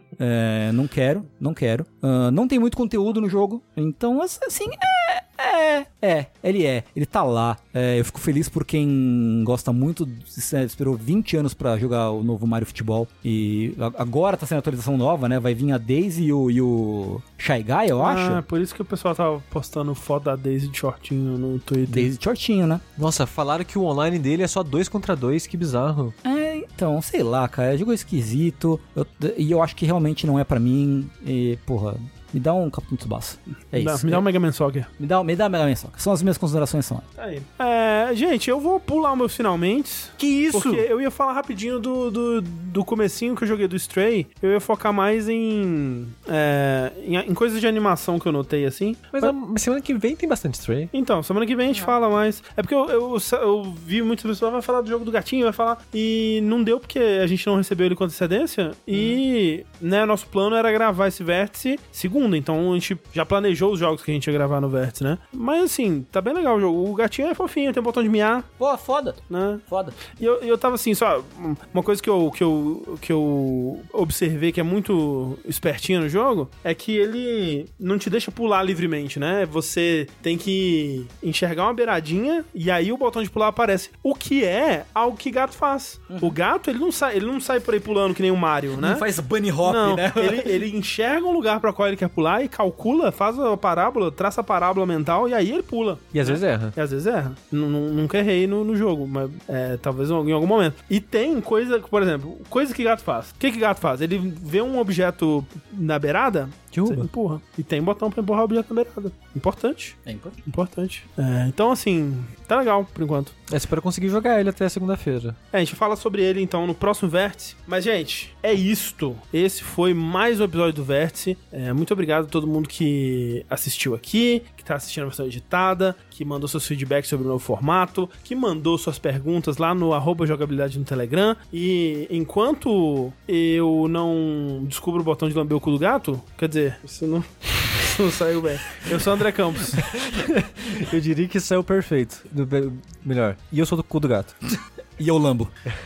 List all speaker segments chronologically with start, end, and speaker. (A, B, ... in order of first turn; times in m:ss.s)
0:00.2-0:18.4 A
0:18.0-0:22.1 B
0:21.9-0:22.8 A
0:23.0-0:26.1 C
0:26.2-0:34.2 A
0:33.7-0:34.9 B
0:35.0-0:37.0 A
0:37.2-0:49.3 B
0:40.2-0:40.9 C
0:49.1-0:50.9 C
0:50.9-1:08.5 B
1:08.6-1:10.0 A
1:09.3-1:29.0 B
1:26.1-1:26.4 A
1:28.8-1:30.5 A
1:29.6-1:53.3 B
1:36.1-1:36.7 C
1:46.7-1:47.1 C
1:50.0-1:50.4 A
1:53.5-1:55.4 C
1:55.5-2:20.0 B
2:20.1-2:24.3 C
2:25.0-2:25.5 A